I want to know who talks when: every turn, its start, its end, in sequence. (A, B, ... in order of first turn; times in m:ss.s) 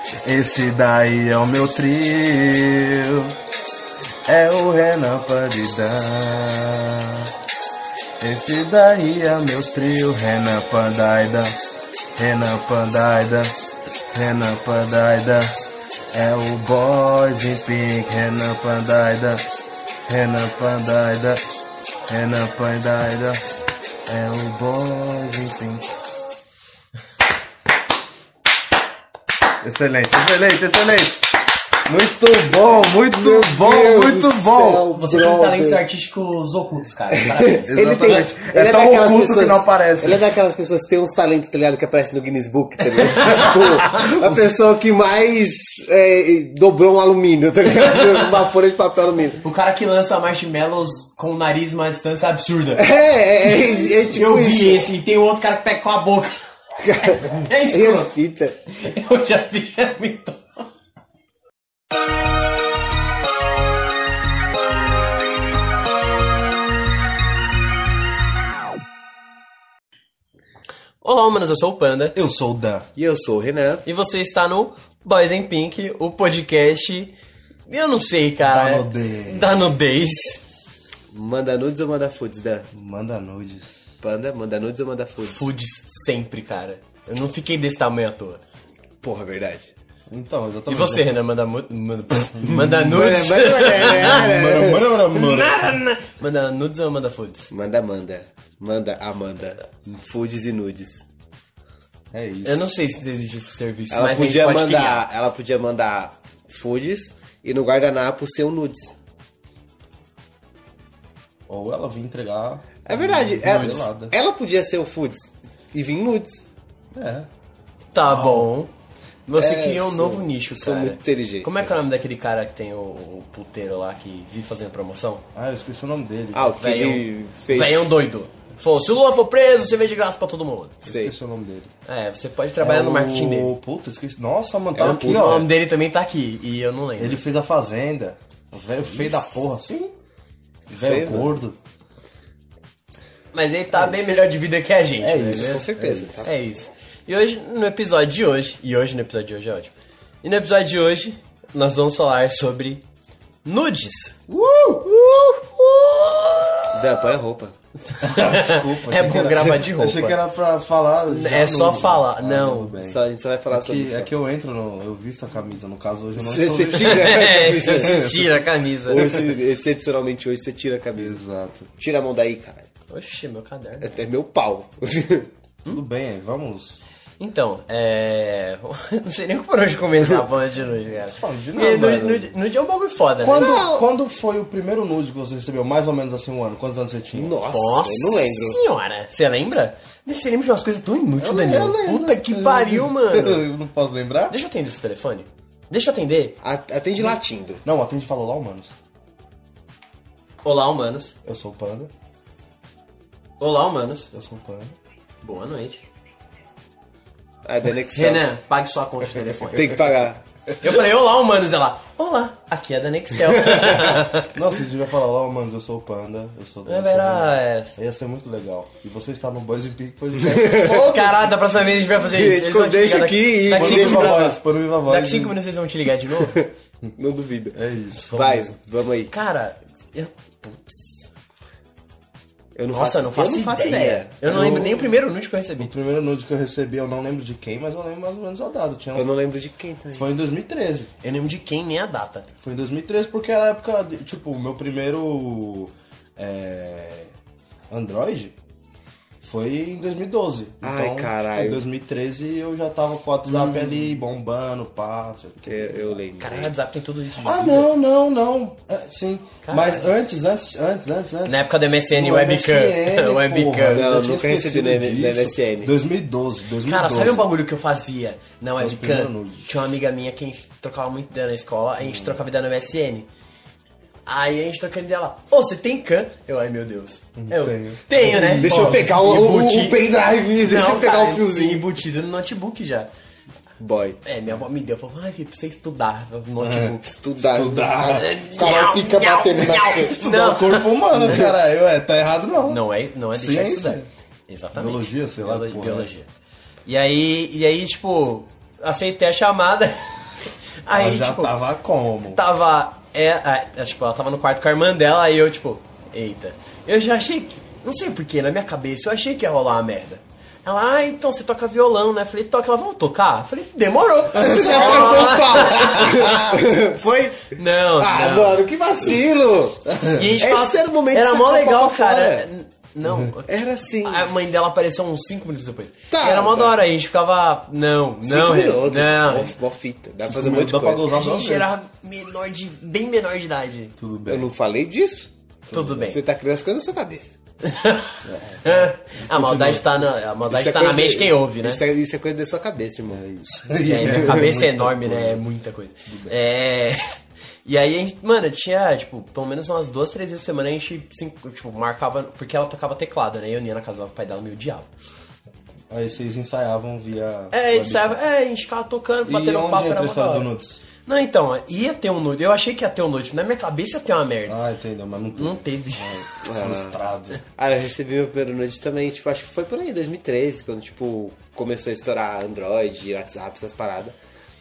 0:00.2-0:03.3 A
0:04.3-0:07.3 A
0:08.2-0:11.6 A
0:12.1-0:13.6 A
0:14.1-0:15.6 A
0:16.1-0:19.5 A
0:20.1-0:21.4 A
0:22.1-0:23.4 A
0:24.1-0:25.9 A
0:29.6-0:31.2 A
0:31.8-0:34.9 A
0:33.0-0:35.8 B
0:34.9-0:38.2 C
0:37.2-0:49.4 B
0:37.7-0:40.2 A
0:43.4-0:44.5 A
0:49.4-0:52.8 C
0:52.8-0:54.9 B
0:53.4-0:56.3 C
0:56.8-0:58.6 B
0:57.0-0:58.1 C
0:58.7-1:00.6 C
1:11.0-1:12.2 C
1:12.1-1:12.9 A
1:13.0-1:13.8 B
1:13.8-1:17.1 C
1:17.7-1:20.5 C
1:18.4-1:19.7 A
1:21.1-1:22.7 B
1:22.7-1:23.8 A
1:24.0-1:25.5 B
1:25.3-1:28.4 C
1:29.0-1:29.7 B
1:30.1-1:31.1 A
1:30.7-1:34.2 C
1:32.4-1:33.2 A
1:32.7-1:34.9 B
1:33.8-1:35.6 A
1:35.1-1:37.5 C
1:37.5-1:41.0 B
1:42.1-1:42.7 A
1:42.4-1:45.0 C
1:43.9-1:49.0 B
1:51.5-1:54.1 A
1:52.8-1:56.4 B
1:53.4-1:53.9 C
1:56.9-1:57.3 A
1:57.9-1:58.7 C
1:58.0-1:58.5 A
1:59.3-2:05.2 C
1:59.4-2:01.8 B
2:05.3-2:06.5 A
2:06.3-2:08.0 B
2:06.6-2:10.8 C
2:10.8-2:11.7 A
2:10.8-2:11.1 B
2:11.9-2:13.6 C
2:12.6-2:15.5 A
2:14.7-2:17.2 C
2:14.8-2:15.3 B
2:17.0-2:19.9 A
2:20.7-2:21.6 A
2:20.8-2:21.3 B
2:23.3-2:25.6 C
2:25.0-2:26.3 A
2:25.3-2:26.3 B
2:26.2-2:29.7 C
2:30.2-2:32.8 C
2:33.4-2:34.2 C
2:34.3-2:36.2 A
2:36.1-2:36.8 C
2:36.7-2:37.5 B
2:37.9-2:40.2 C
2:38.0-2:43.0 A
2:41.1-2:42.7 C
2:42.8-2:44.1 B
2:43.5-2:48.2 A
2:46.2-2:48.2 B
2:46.8-2:49.2 C
2:48.9-2:51.2 B
2:50.9-2:51.7 A
2:51.8-2:52.7 B
2:52.9-2:53.9 C
2:53.8-2:55.3 B
2:55.7-2:56.8 A
2:57.2-3:03.6 C
3:01.0-3:02.3 A
3:03.2-3:07.4 A
3:03.3-3:03.8 B
3:07.1-3:08.6 B
3:07.5-3:13.4 C
3:11.2-3:14.4 A
3:14.3-3:16.4 C
3:16.4-3:17.6 B
3:17.0-3:18.7 A
3:20.4-3:21.1 C
3:21.2-3:21.9 A
3:23.4-3:24.1 C
3:24.1-3:24.8 A
3:25.2-3:25.8 C
3:27.4-3:28.2 B
3:27.9-3:29.7 C
3:29.5-3:30.2 B
3:30.6-3:34.3 C
3:33.3-3:34.0 B
3:34.3-3:41.3 A
3:36.6-3:37.8 C
3:40.2-3:40.8 B
3:40.6-3:44.3 C
3:42.0-3:44.4 B
3:43.5-3:45.4 A
3:44.8-3:46.4 C
3:46.2-3:47.6 B
3:47.5-3:48.1 A
3:48.1-3:48.5 C
3:48.1-3:49.1 B
3:49.1-3:51.1 C
3:52.5-3:54.7 B
3:52.7-3:55.7 C
3:54.2-3:54.9 A
3:55.6-3:59.1 A
3:58.9-4:00.1 B
3:59.9-4:00.9 A
4:01.0-4:02.3 C
4:02.4-4:07.1 A
4:07.7-4:08.3 A
4:09.2-4:16.0 A
4:10.6-4:11.6 B
4:13.3-4:13.8 C
4:15.5-4:16.5 B
4:16.2-4:17.7 C
4:17.2-4:27.3 A
4:19.4-4:19.9 C
4:21.2-4:23.8 C
4:23.7-4:25.7 B
4:26.6-4:33.1 C
4:28.6-4:29.5 A
4:31.8-4:32.2 A
4:34.0-4:39.9 C
4:37.2-4:38.9 A
4:38.2-4:41.6 B
4:40.4-4:42.9 C
4:43.6-4:44.0 B
4:44.0-4:46.8 C
4:46.4-4:48.1 A
4:46.8-4:50.0 B
4:47.9-4:51.2 C
4:49.7-4:53.9 A
4:51.0-4:51.3 B
4:52.4-4:56.1 C
4:54.5-4:55.9 A
4:56.6-4:59.8 C
5:00.6-5:01.4 C
5:00.7-5:02.2 A
5:02.1-5:16.1 C
5:14.1-5:22.3 B
5:14.2-5:16.4 A
5:17.3-5:18.4 C
5:19.7-5:20.1 A
5:19.9-5:23.3 C
5:23.3-5:24.1 B
5:23.8-5:29.3 C
5:25.9-5:26.6 B
5:28.0-5:30.9 B
5:30.0-5:31.5 A
5:30.9-5:33.7 C
5:33.8-5:34.3 A
5:34.1-5:35.1 B
5:35.5-5:36.0 A
5:35.5-5:36.0 C
5:35.9-5:37.2 B
5:37.4-5:41.6 C
5:38.0-5:39.9 A
5:40.3-5:43.0 B
5:42.9-5:45.2 A
5:43.6-5:46.8 C
5:43.8-5:44.3 B
5:45.9-5:46.2 A
5:47.4-5:54.7 C
5:55.7-5:58.0 A
5:57.3-6:00.3 C
5:59.0-6:00.6 A
6:00.8-6:04.4 C
6:04.2-6:07.2 A
6:05.2-6:06.1 C
6:06.2-6:06.8 B
6:07.4-6:14.0 B